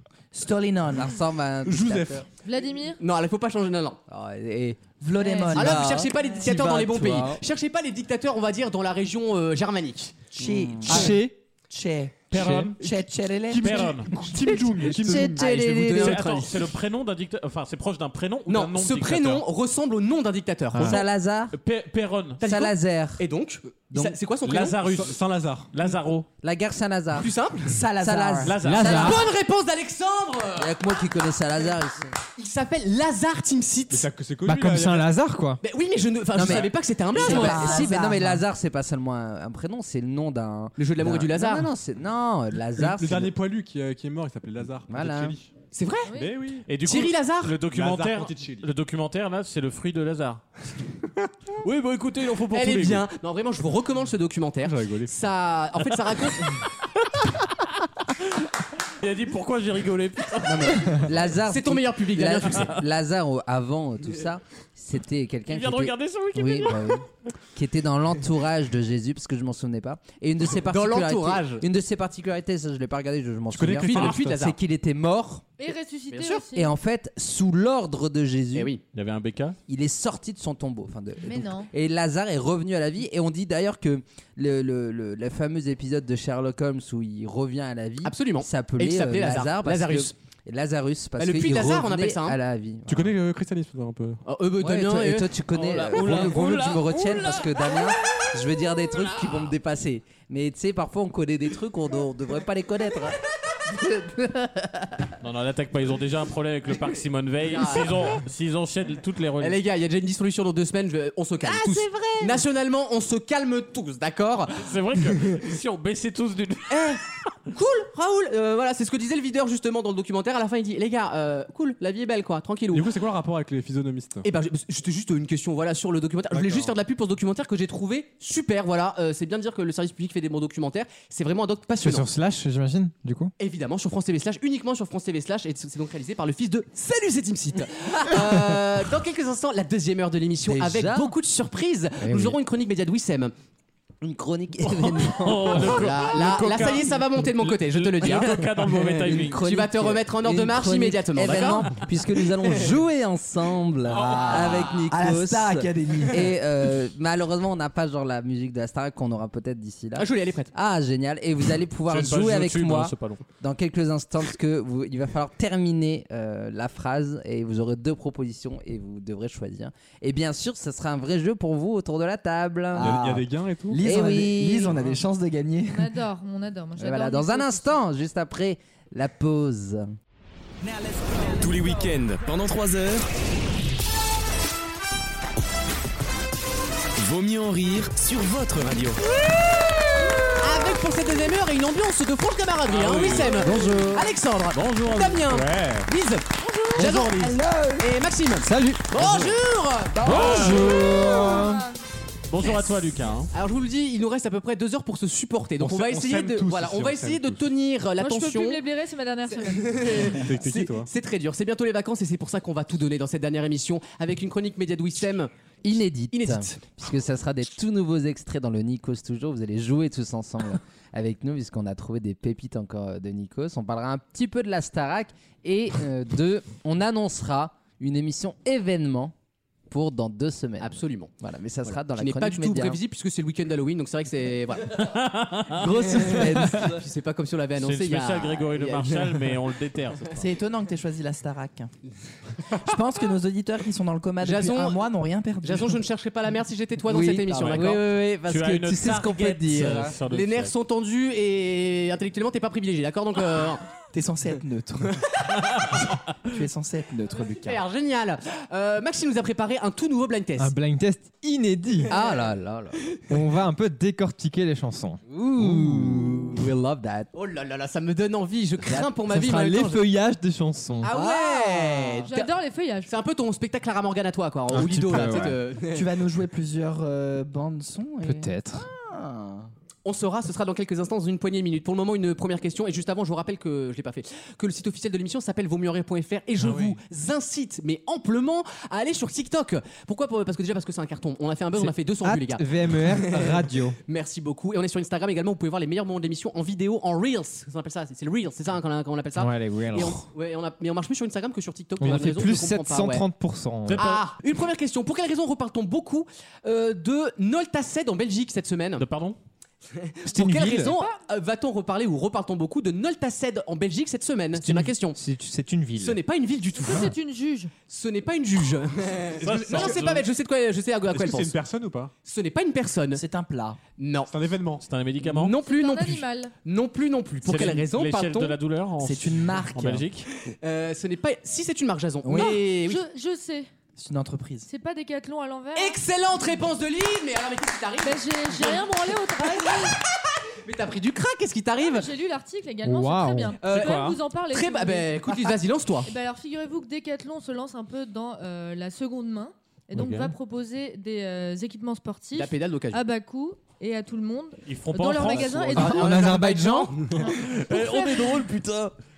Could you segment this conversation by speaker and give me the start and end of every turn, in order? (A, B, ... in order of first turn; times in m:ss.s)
0:00.3-0:01.2 A
0:00.9-0:02.2 B
0:01.6-0:02.2 C
0:02.4-0:03.0 D
0:03.0-0:04.0 E
0:04.1-0:05.0 B
0:05.0-0:06.0 A
0:05.2-0:05.7 D
0:05.5-0:07.4 B
0:05.5-0:10.3 E
0:10.3-0:15.4 A
0:10.4-0:11.2 B
0:10.9-0:11.3 F
0:12.3-0:12.8 G
0:12.3-0:12.7 F
0:13.5-0:15.6 C
0:13.6-0:14.1 G
0:15.0-0:16.5 B
0:15.4-0:16.5 E
0:15.8-0:19.4 G
0:18.5-0:21.0 E
0:20.8-0:21.6 B
0:20.8-0:22.4 G
0:22.4-0:23.3 B
0:22.4-0:24.8 E
0:23.9-0:24.2 B
0:24.5-0:25.2 G
0:24.5-0:25.7 C
0:25.7-0:26.3 G
0:26.4-0:27.3 B
0:27.2-0:27.8 E
0:27.7-0:28.7 A
0:27.9-0:29.3 B
0:28.4-0:29.2 G
0:28.8-0:30.8 E
0:30.6-0:32.1 B
0:32.4-0:34.1 E
0:33.9-0:35.1 C
0:34.4-0:35.6 F
0:35.6-0:37.9 E
0:36.4-0:43.3 B
0:37.2-0:38.4 A
0:40.8-0:41.7 E
0:42.8-0:45.5 C
0:44.9-0:45.4 B
0:45.7-0:46.1 E
0:46.1-0:46.3 D
0:46.1-0:46.7 C
0:46.7-0:50.4 G
0:46.8-0:47.6 E
0:47.7-0:48.7 C
0:51.6-0:53.0 G
0:52.5-0:56.6 E
0:54.6-0:55.1 C
0:59.0-1:01.2 G
1:00.4-1:15.5 B
1:01.5-1:02.8 E
1:05.5-1:07.0 G
1:10.6-1:11.6 E
1:13.5-1:14.4 C
1:13.8-1:14.6 E
1:15.6-1:16.7 D
1:16.1-1:16.4 E
1:16.5-1:18.7 B
1:18.5-1:18.8 E
1:18.9-1:19.6 G
1:19.7-1:33.1 B
1:21.2-1:21.7 D
1:28.0-1:30.1 E
1:31.2-1:32.4 E
1:32.9-1:34.2 C
1:34.3-1:35.3 E
1:34.6-1:45.0 B
1:35.5-1:37.6 G
1:45.2-1:49.6 G
1:47.5-1:48.0 E
1:49.4-1:55.4 E
1:51.5-1:52.3 B
1:54.5-1:57.0 G
1:56.7-2:02.9 E
2:02.7-2:04.3 C
2:04.2-2:12.1 E
2:06.3-2:06.7 C
2:11.8-2:13.3 F
2:13.4-2:23.3 E
2:20.4-2:21.1 B
2:22.1-2:22.4 F
2:24.0-2:25.8 B
2:24.6-2:29.4 G
2:25.5-2:28.5 E
2:28.6-2:53.0 B
2:29.1-2:32.6 E
2:34.0-2:34.7 E
2:34.0-2:36.4 A
2:40.0-2:40.5 E
2:41.9-2:43.2 G
2:52.8-2:55.9 A
2:52.8-2:53.9 C
2:53.8-2:54.8 B
2:55.6-2:57.8 D
2:56.8-2:59.8 B
3:01.3-3:03.0 H
3:07.0-3:09.0 H
3:10.4-3:20.3 E
3:12.7-3:13.6 G
3:13.4-3:14.0 F
3:14.5-3:15.9 G
3:16.8-3:17.8 A
3:16.8-3:17.1 F
3:18.4-3:19.2 F
3:20.0-3:20.9 G
3:20.0-3:21.6 F
3:20.1-3:21.5 A
3:22.3-3:23.3 G
3:23.3-3:28.6 E
3:25.6-3:27.5 C
3:28.0-3:29.8 D
3:29.3-3:35.3 E
3:30.2-3:30.9 C
3:35.6-3:49.1 B
3:36.1-3:36.6 E
3:49.7-3:52.8 B
3:50.6-3:54.9 E
3:54.7-3:56.0 G
3:55.6-3:59.4 E
3:55.7-3:56.7 A
3:57.6-4:00.2 G
4:00.2-4:01.7 A
4:02.5-4:05.8 A
4:04.2-4:04.9 E
4:05.4-4:07.8 E
4:06.9-4:09.9 B
4:07.4-4:10.6 G
4:10.1-4:13.6 E
4:13.9-4:15.0 A
4:16.2-4:17.6 A
4:17.2-4:20.5 E
4:20.4-4:21.9 F
4:21.9-4:23.0 B
4:23.1-4:26.3 F
4:25.1-4:27.1 B
4:27.1-4:29.8 E
4:29.1-4:30.9 F
4:30.8-4:32.4 E
4:31.7-4:32.0 B
4:32.0-4:32.9 D
4:32.9-4:35.9 E
4:34.5-4:35.4 F
4:35.7-4:38.3 A
4:38.0-4:38.6 F
4:38.8-4:39.4 B
4:39.8-5:03.0 E
4:51.6-4:53.8 F
4:59.2-5:00.1 F
5:01.8-5:03.9 F
5:03.7-5:04.0 G
5:03.8-5:08.9 E
5:08.8-5:09.2 G
5:09.8-5:15.0 E
5:10.1-5:10.7 F
5:10.6-5:10.9 D
5:14.3-5:16.0 F
5:15.8-5:16.9 E
5:16.6-5:17.5 D
5:17.7-5:21.4 E
5:19.2-5:19.9 C
5:19.2-5:20.1 G
5:20.9-5:21.9 C
5:22.0-5:23.0 E
5:22.9-5:23.6 A
5:23.8-5:24.1 E
5:24.1-5:24.6 C
5:24.6-5:25.4 G
5:25.0-5:28.3 E
5:25.4-5:26.3 D
5:27.2-5:30.1 G
5:28.8-5:29.9 A
5:30.3-5:32.8 E
5:32.0-5:32.4 A
5:32.1-5:33.5 D
5:33.8-5:34.5 A
5:34.5-5:35.8 D
5:35.6-5:39.9 E
5:37.8-5:39.8 D
5:40.4-5:41.9 E
5:41.6-5:45.1 D
5:42.6-5:43.4 F
5:43.4-5:45.9 E
5:43.5-5:44.0 G
5:45.9-5:56.3 D
5:49.7-5:50.1 G
5:52.2-5:52.8 E
5:54.5-5:55.9 G
5:55.5-5:56.8 E
5:55.6-5:56.8 F
5:56.9-5:58.3 D
5:57.1-5:58.7 G